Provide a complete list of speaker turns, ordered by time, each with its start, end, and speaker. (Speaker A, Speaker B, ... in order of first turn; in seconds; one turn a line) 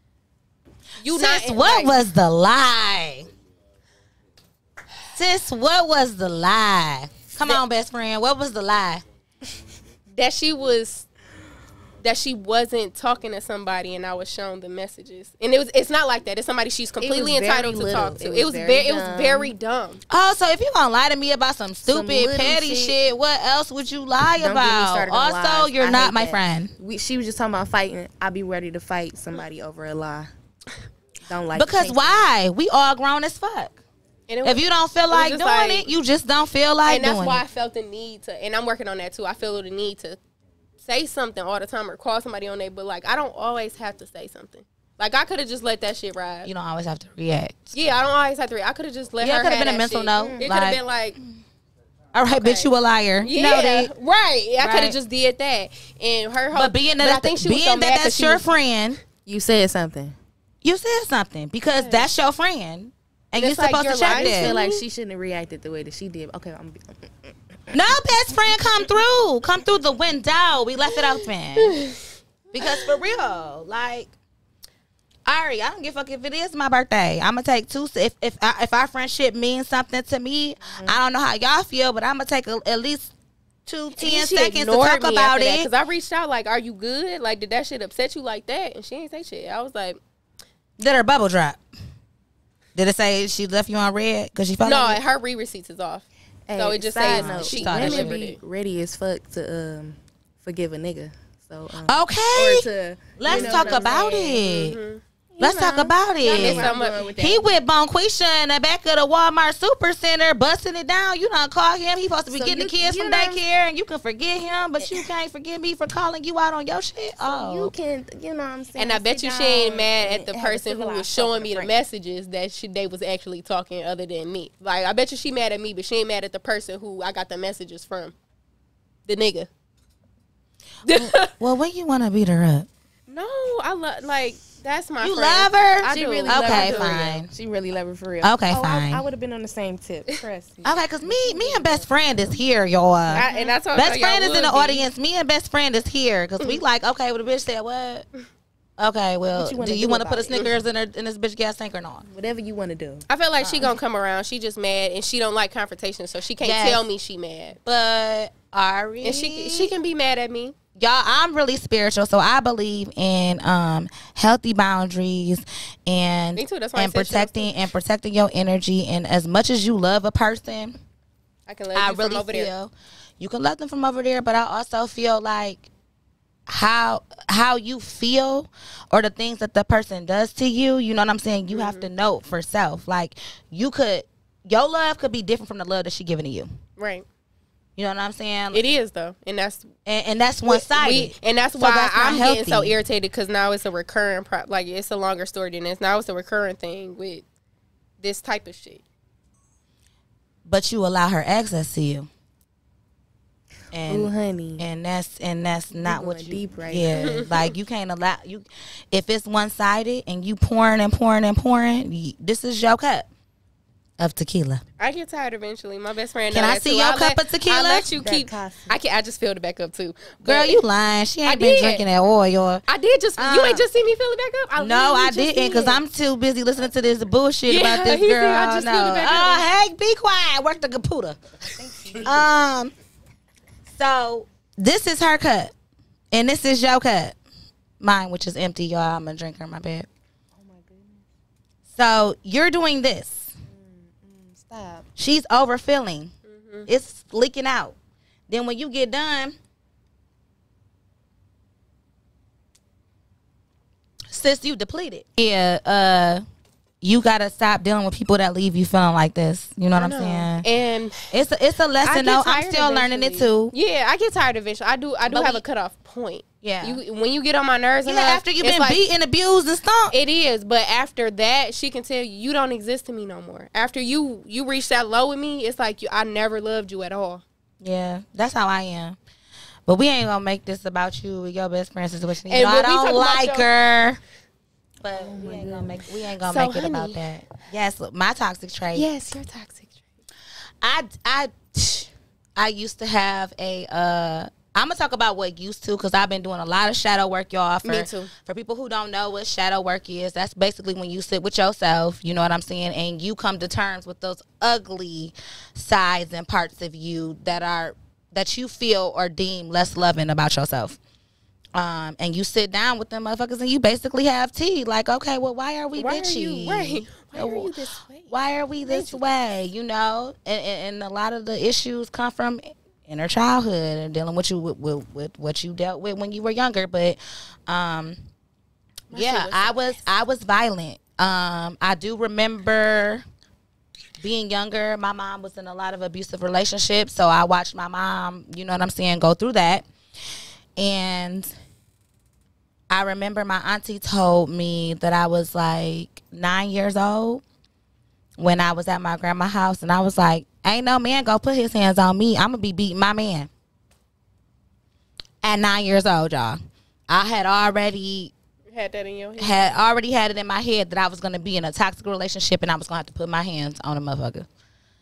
Speaker A: 1.0-2.0
Speaker B: 1.1-3.3
Speaker B: 5.1-9.0
Speaker A: 10.1-11.1
Speaker A: 12.0-20.0
Speaker C: 17.0-19.5
Speaker B: 20.1-26.7
Speaker C: 21.9-23.0
Speaker C: 24.4-30.3
Speaker C: 31.3-32.1
Speaker B: 31.5-33.8
Speaker A: 34.3-35.9
Speaker B: 34.4-37.4
Speaker A: 36.9-40.2
Speaker A: 40.8-46.5
Speaker B: 46.4-47.7
Speaker A: 47.7-51.2
Speaker B: 49.2-50.8
Speaker C: 50.2-50.4
Speaker B: 52.1-53.9
Speaker A: 52.3-52.7
Speaker A: 53.2-58.5
Speaker B: 54.6-55.0
Speaker B: 56.5-59.0
Speaker C: 59.2-60.1
Speaker B: 60.6-64.5
Speaker A: 61.7-62.1
Speaker A: 63.3-64.8
Speaker C: 64.1-67.7
Speaker B: 67.7-71.8
Speaker A: 71.6-72.1
Speaker B: 72.5-74.1
Speaker B: 75.3-83.1
Speaker C: 80.6-81.0
Speaker B: 83.7-85.7
Speaker A: 84.0-90.0
Speaker B: 90.8-91.6
Speaker B: 92.8-95.0
Speaker A: 94.6-98.4
Speaker C: 96.5-104.0
Speaker B: 97.0-98.2
Speaker B: 101.8-102.7
Speaker B: 103.2-104.8
Speaker A: 103.3-105.0
Speaker C: 105.3-107.5
Speaker B: 105.4-117.7
Speaker A: 106.2-107.1
Speaker C: 112.3-113.4
Speaker C: 114.8-115.1
Speaker C: 117.2-121.7
Speaker A: 118.8-128.2
Speaker A: 129.1-129.5
Speaker A: 130.8-131.3
Speaker B: 130.9-132.7
Speaker A: 133.1-137.0
Speaker B: 135.0-137.3
Speaker C: 135.9-142.2
Speaker B: 138.2-139.0
Speaker B: 140.6-148.1
Speaker C: 143.1-143.6
Speaker A: 143.1-144.8
Speaker B: 148.8-152.0
Speaker C: 149.3-150.5
Speaker C: 152.1-153.1
Speaker A: 153.1-157.6
Speaker B: 153.4-153.7
Speaker B: 156.4-156.8
Speaker B: 157.6-159.7
Speaker A: 159.0-160.5
Speaker B: 160.8-170.8
Speaker A: 166.3-167.6
Speaker A: 171.5-172.5
Speaker B: 171.7-175.7
Speaker B: 176.5-186.5
Speaker A: 181.5-181.9
Speaker A: 186.8-187.1
Speaker B: 187.8-188.6
Speaker A: 188.5-189.7
Speaker B: 189.8-192.8
Speaker A: 190.5-197.2
Speaker A: 198.0-198.8
Speaker B: 200.4-202.1
Speaker B: 203.7-213.1
Speaker C: 203.9-204.6
Speaker C: 205.7-207.0
Speaker A: 206.9-207.5
Speaker B: 214.0-214.6
Speaker A: 214.8-220.6
Speaker B: 216.3-217.9
Speaker C: 218.0-218.7
Speaker B: 220.2-222.6
Speaker A: 221.2-221.8
Speaker A: 222.7-225.8
Speaker B: 223.2-223.6
Speaker B: 224.6-231.2
Speaker A: 227.5-229.4
Speaker C: 231.5-232.3
Speaker B: 232.0-232.7
Speaker B: 233.7-235.5
Speaker B: 236.1-237.2
Speaker B: 237.8-239.9
Speaker C: 240.4-241.0
Speaker B: 241.7-243.3
Speaker C: 243.5-244.9
Speaker B: 245.0-246.1
Speaker A: 246.3-246.7
Speaker B: 246.7-247.7
Speaker B: 248.3-249.3
Speaker B: 254.1-256.2
Speaker B: 256.8-260.5
Speaker A: 259.7-261.1
Speaker B: 261.1-263.5
Speaker A: 261.8-268.8
Speaker B: 265.1-265.4
Speaker B: 266.4-266.8
Speaker B: 267.9-269.9
Speaker A: 269.9-277.2
Speaker B: 277.6-279.0
Speaker B: 279.7-284.0
Speaker A: 282.3-283.5
Speaker B: 284.8-288.9
Speaker C: 284.9-285.9
Speaker A: 286.2-287.0
Speaker A: 288.7-289.8
Speaker B: 290.6-310.8
Speaker A: 297.6-298.1
Speaker B: 311.5-317.5
Speaker A: 315.8-319.0
Speaker B: 318.1-328.0
Speaker A: 328.9-329.8
Speaker B: 328.9-333.0
Speaker B: 334.0-339.7
Speaker B: 340.6-341.3
Speaker B: 342.7-347.2
Speaker B: 348.2-353.3
Speaker B: 355.2-358.1
Speaker A: 358.5-359.6
Speaker B: 359.2-364.3